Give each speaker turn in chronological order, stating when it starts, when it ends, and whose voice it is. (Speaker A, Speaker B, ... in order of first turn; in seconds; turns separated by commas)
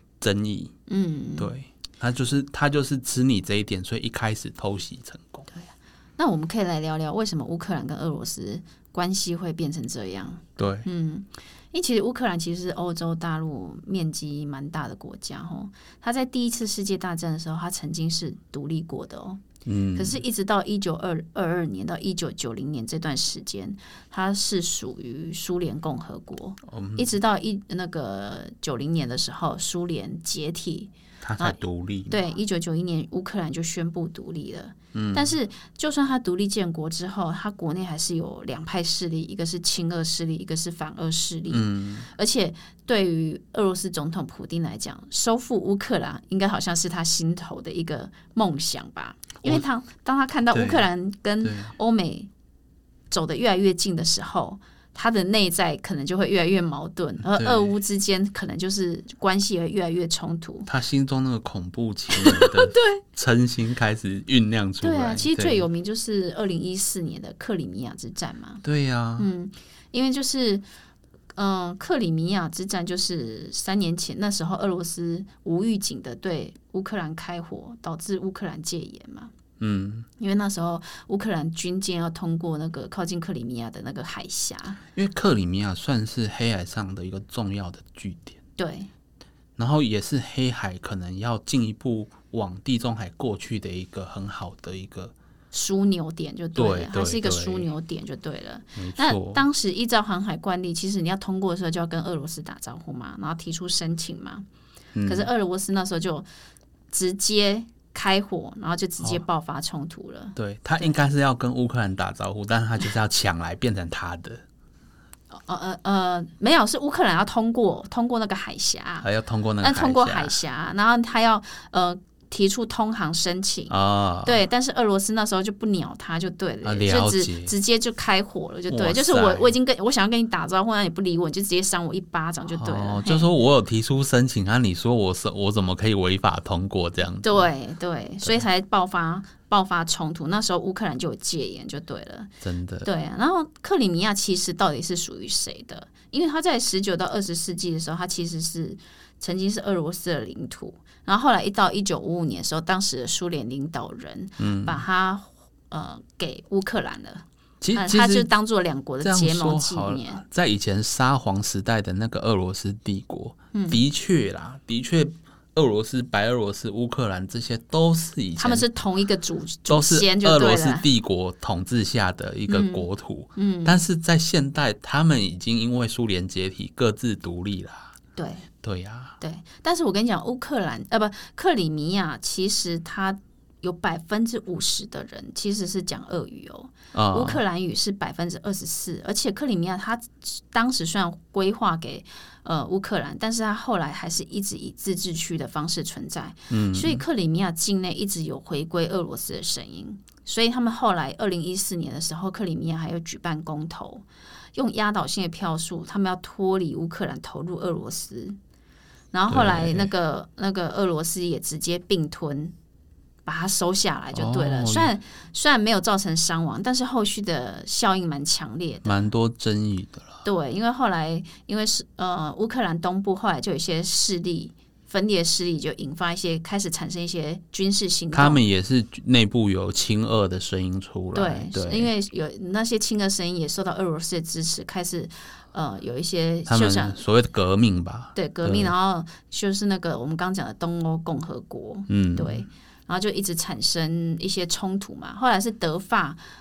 Speaker A: 0.2-0.7, Speaker B: 0.9-1.5, Speaker A: 1.4-5.5, Speaker B: 5.5-19.4, Speaker A: 10.6-10.8, Speaker A: 19.6-20.2, Speaker B: 19.9-31.6, Speaker A: 26.7-27.1, Speaker A: 31.2-32.1, Speaker B: 32.1-52.3, Speaker A: 34.9-35.3, Speaker A: 41.5-42.1, Speaker A: 50.5-50.9, Speaker A: 51.4-51.7, Speaker B: 53.1-60.7, Speaker A: 57.2-57.7, Speaker A: 60.7-65.6, Speaker B: 62.1-63.0, Speaker B: 64.8-68.6, Speaker A: 68.6-69.3, Speaker B: 69.2-70.6, Speaker B: 71.3-79.3, Speaker A: 79.6-80.1, Speaker B: 80.2-84.8, Speaker A: 84.9-88.4, Speaker B: 88.6-88.9, Speaker A: 89.6-95.1, Speaker B: 95.5-104.4, Speaker A: 96.5-97.7, Speaker A: 98.8-99.4, Speaker A: 104.9-105.3, Speaker B: 105.0-106.2, Speaker B: 106.9-111.0, Speaker A: 110.3-114.4, Speaker B: 115.3-119.1, Speaker A: 119.0-120.4, Speaker B: 119.6-133.3, Speaker A: 123.7-124.4, Speaker A: 126.6-127.5, Speaker A: 128.7-129.5, Speaker A: 132.5-137.5, Speaker B: 137.2-142.3, Speaker A: 142.4-142.9, Speaker B: 142.8-160.2, Speaker A: 154.4-154.8, Speaker A: 157.6-158.3, Speaker A: 159.0-168.6, Speaker B: 163.5-163.8, Speaker B: 168.4-170.8, Speaker A: 169.7-177.9, Speaker B: 172.5-173.8, Speaker B: 178.2-178.4, Speaker A: 178.6-179.2, Speaker B: 179.2-208.4, Speaker A: 186.9-187.4, Speaker A: 196.5-197.0, Speaker B: 209.1-212.5, Speaker A: 209.3-209.9, Speaker B: 213.2-219.1, Speaker A: 214.1-214.9, Speaker A: 218.8-220.2, Speaker B: 220.2-228.4, Speaker A: 228.1-231.9, Speaker B: 231.1-237.0, Speaker A: 236.5-238.7, Speaker B: 238.1-246.2, Speaker A: 241.9-242.4